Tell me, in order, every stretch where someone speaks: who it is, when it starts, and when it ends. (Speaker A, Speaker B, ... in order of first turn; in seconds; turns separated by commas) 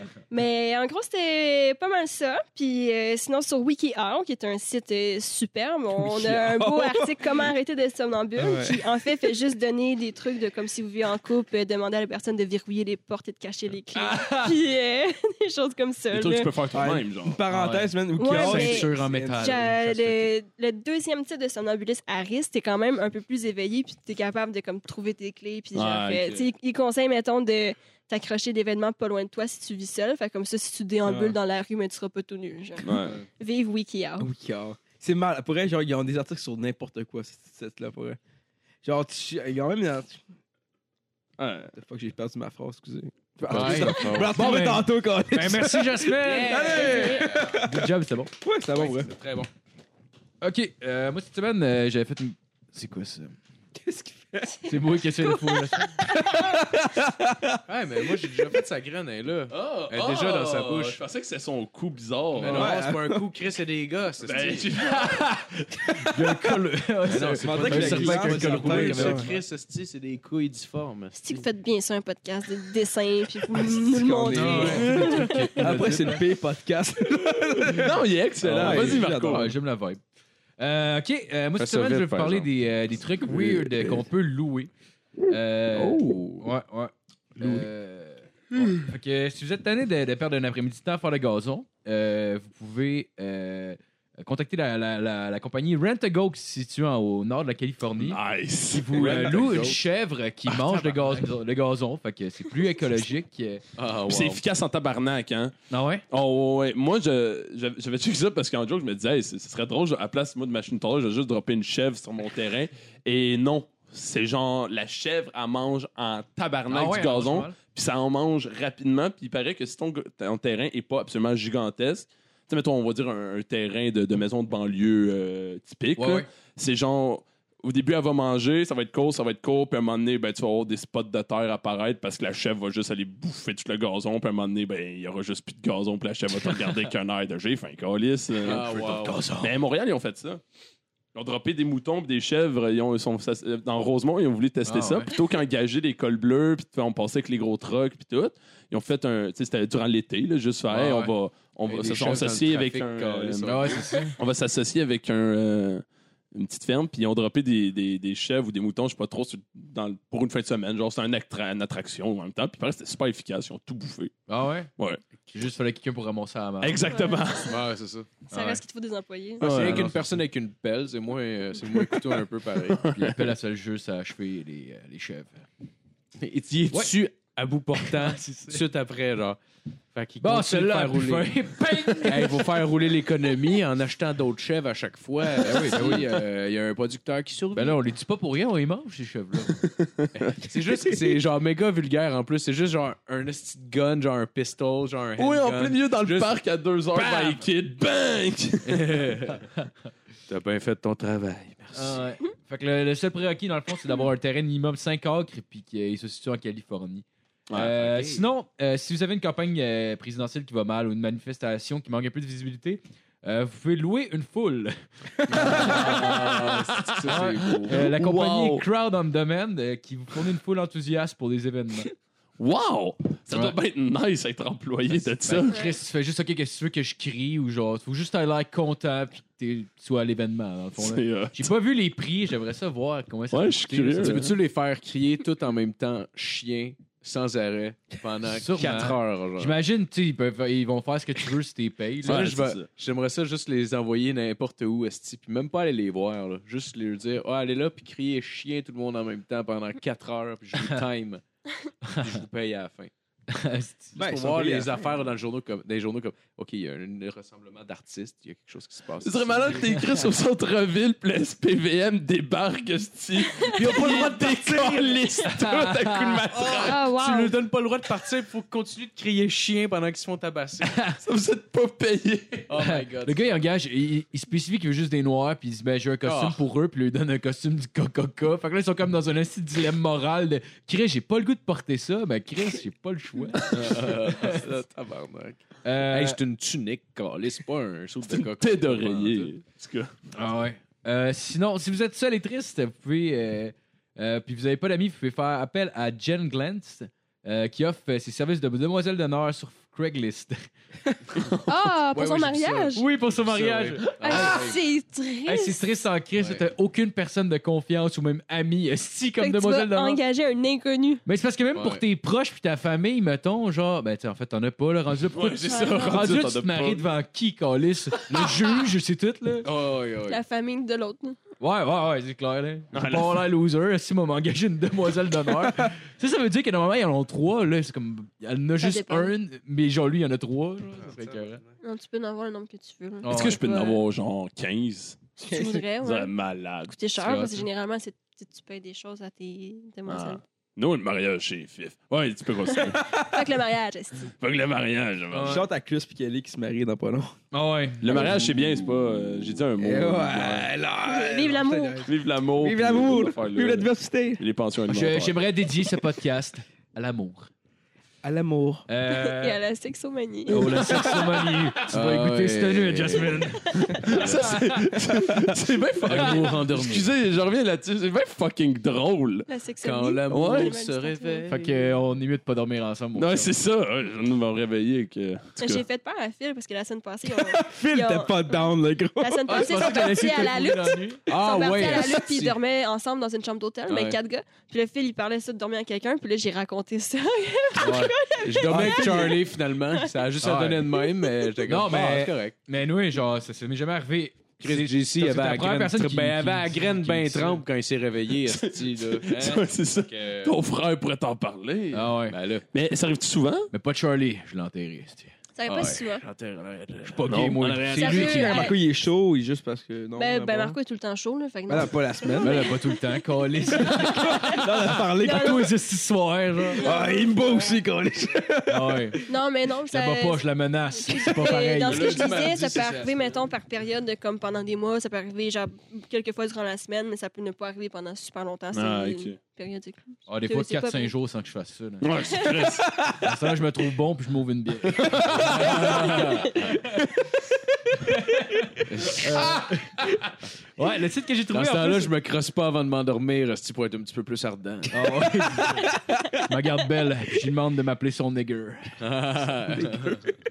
Speaker A: 0.3-16.5, Speaker B: 6.0-7.5, Speaker B: 8.4-9.1, Speaker C: 13.9-14.6, Speaker D: 16.1-17.4, Speaker B: 16.7-19.6, Speaker C: 17.5-20.3, Speaker A: 18.2-34.3, Speaker D: 25.7-26.5, Speaker B: 31.0-31.4, Speaker D: 32.8-33.2, Speaker B: 34.2-38.2, Speaker B: 38.8-40.2, Speaker D: 41.4-41.7, Speaker B: 41.7-47.9, Speaker C: 43.5-48.3, Speaker E: 43.5-44.6, Speaker E: 46.2-47.6, Speaker A: 46.8-47.3, Speaker B: 48.4-49.1, Speaker E: 48.7-49.5, Speaker C: 50.4-53.4, Speaker B: 53.8-55.0, Speaker C: 54.6-56.1, Speaker B: 56.0-58.2, Speaker E: 57.7-61.0, Speaker D: 59.5-62.8, Speaker E: 62.4-64.7, Speaker B: 62.4-63.3, Speaker D: 64.2-65.3, Speaker C: 64.9-69.3, Speaker E: 67.1-71.4, Speaker B: 67.4-69.3, Speaker A: 71.2-75.6, Speaker B: 73.5-79.5, Speaker C: 74.3-76.2, Speaker D: 77.7-79.5, Speaker C: 78.5-80.0, Speaker C: 80.6-84.7, Speaker E: 81.6-82.5, Speaker C: 85.3-98.2, Speaker E: 85.8-86.4, Speaker D: 98.0-99.4, Speaker C: 98.7-103.6, Speaker E: 98.9-99.8, Speaker D: 100.5-101.2, Speaker E: 103.8-104.4, Speaker D: 104.1-105.5, Speaker C: 105.7-106.0, Speaker D: 106.1-140.4, Speaker C: 116.7-117.6, Speaker C: 126.0-126.3, Speaker E: 138.4-139.2, Speaker C: 138.5-139.5, Speaker D: 141.1-164.1, Speaker C: 144.7-145.1, Speaker C: 150.7-151.1, Speaker E: 151.7-153.9, Speaker C: 153.5-154.2, Speaker C: 164.3-164.7, Speaker C: 165.3-166.9, Speaker D: 166.6-167.6, Speaker A: 166.9-167.5, Speaker E: 167.4-168.1, Speaker A: 168.3-169.4, Speaker C: 168.3-168.6, Speaker D: 169.4-169.9, Speaker E: 169.4-172.9, Speaker C: 169.4-170.1, Speaker D: 171.7-172.2, Speaker D: 172.7-173.2, Speaker C: 172.9-175.5, Speaker E: 176.2-179.4, Speaker C: 177.8-178.6, Speaker E: 179.9-187.8, Speaker C: 180.2-182.4, Speaker C: 185.3-186.2, Speaker C: 187.5-189.6, Speaker D: 189.6-190.2, Speaker E: 190.3-196.3, Speaker D: 195.2-199.1, Speaker C: 197.0-197.3, Speaker E: 198.7-199.4, Speaker E: 200.3-202.0, Speaker C: 201.7-216.4, Speaker D: 207.5-208.1, Speaker E: 215.3-217.8, Speaker D: 215.5-218.7, Speaker C: 217.0-221.9, Speaker D: 222.4-225.6, Speaker C: 225.3-234.3, Speaker A: 225.5-225.8, Speaker D: 230.8-231.5, Speaker D: 233.3-234.3, Speaker E: 234.0-239.6, Speaker C: 238.3-242.3, Speaker D: 242.0-242.7, Speaker E: 242.0-251.2, Speaker E: 251.9-252.9, Speaker C: 253.3-254.0, Speaker B: 254.0-254.9, Speaker E: 254.0-259.8, Speaker D: 259.0-266.8, Speaker C: 263.6-266.2, Speaker E: 263.7-264.9, Speaker E: 266.3-270.8, Speaker A: 266.6-267.4, Speaker C: 270.6-271.0, Speaker D: 271.0-272.5, Speaker E: 272.5-273.4, Speaker C: 272.6-284.4, Speaker E: 276.0-276.4, Speaker E: 283.5-289.3, Speaker C: 285.6-286.2, Speaker D: 288.1-289.9, Speaker C: 290.1-300.4, Speaker D: 301.2-301.5, Speaker A: 301.4-302.8, Speaker E: 301.9-304.6, Speaker C: 302.8-304.5, Speaker A: 304.0-305.7, Speaker C: 305.3-310.0, Speaker E: 306.2-306.4, Speaker A: 309.2-311.0, Speaker C: 311.1-319.5, Speaker E: 311.5-311.8, Speaker D: 315.1-316.9, Speaker A: 315.5-316.1, Speaker E: 319.4-320.2, Speaker A: 320.1-321.2, Speaker C: 321.4-331.4, Speaker D: 322.7-323.2, Speaker A: 328.6-329.1, Speaker A: 331.6-333.8, Speaker C: 333.0-333.5, Speaker D: 333.1-335.1, Speaker B: 335.2-335.7, Speaker A: 335.2-336.1, Speaker D: 335.8-336.8, Speaker A: 336.7-340.2, Speaker C: 337.0-337.5, Speaker D: 339.9-342.8, Speaker A: 342.5-344.1, Speaker B: 342.8-343.3, Speaker D: 344.2-345.4, Speaker C: 345.1-345.5, Speaker B: 345.3-347.1, Speaker C: 347.3-348.3, Speaker D: 347.8-350.5, Speaker B: 349.6-354.2, Speaker A: 350.8-351.9, Speaker D: 351.9-355.2, Speaker C: 354.7-357.3, Speaker B: 358.0-358.7, Speaker C: 358.7-359.4, Speaker A: 358.9-361.0, Speaker C: 360.3-364.4, Speaker E: 361.7-363.3, Speaker A: 363.3-363.8, Speaker D: 363.8-369.3, Speaker B: 364.9-365.3, Speaker E: 365.9-366.9, Speaker C: 365.9-366.3, Speaker A: 369.3-371.4, Speaker E: 369.6-371.5, Speaker D: 370.1-370.6, Speaker C: 371.3-373.3, Speaker D: 372.9-375.6, Speaker A: 375.4-389.9, Speaker B: 377.1-379.7, Speaker C: 379.3-381.0, Speaker E: 381.1-382.4, Speaker E: 383.7-384.0, Speaker C: 387.6-387.9, Speaker E: 388.2-392.4, Speaker C: 388.5-389.1, Speaker C: 390.2-390.7, Speaker A: 390.9-391.3, Speaker C: 391.4-397.4, Speaker E: 394.4-400.4, Speaker D: 398.2-401.9, Speaker C: 401.7-402.1, Speaker E: 402.1-402.4, Speaker D: 402.5-403.5, Speaker C: 403.5-405.1, Speaker A: 405.4-406.0, Speaker E: 405.5-407.1, Speaker C: 406.8-408.5, Speaker D: 407.1-408.1, Speaker A: 407.7-408.6, Speaker B: 408.1-410.6, Speaker A: 409.9-415.5, Speaker B: 411.5-412.5, Speaker C: 412.2-414.4, Speaker B: 413.7-415.5, Speaker C: 415.0-416.7, Speaker A: 416.5-417.1, Speaker B: 416.6-419.1, Speaker C: 418.5-419.0, Speaker A: 419.1-420.3, Speaker C: 419.7-422.2, Speaker A: 420.8-430.9, Speaker E: 421.4-423.2, Speaker D: 428.5-429.2, Speaker C: 430.1-432.3, Speaker D: 431.8-432.9, Speaker A: 432.2-432.4, Speaker C: 433.0-436.6, Speaker D: 434.7-436.0, Speaker E: 435.4-436.3, Speaker C: 437.9-441.9, Speaker E: 438.7-439.2, Speaker E: 441.3-445.4, Speaker C: 444.7-448.8, Speaker E: 448.8-450.0, Speaker B: 449.5-450.1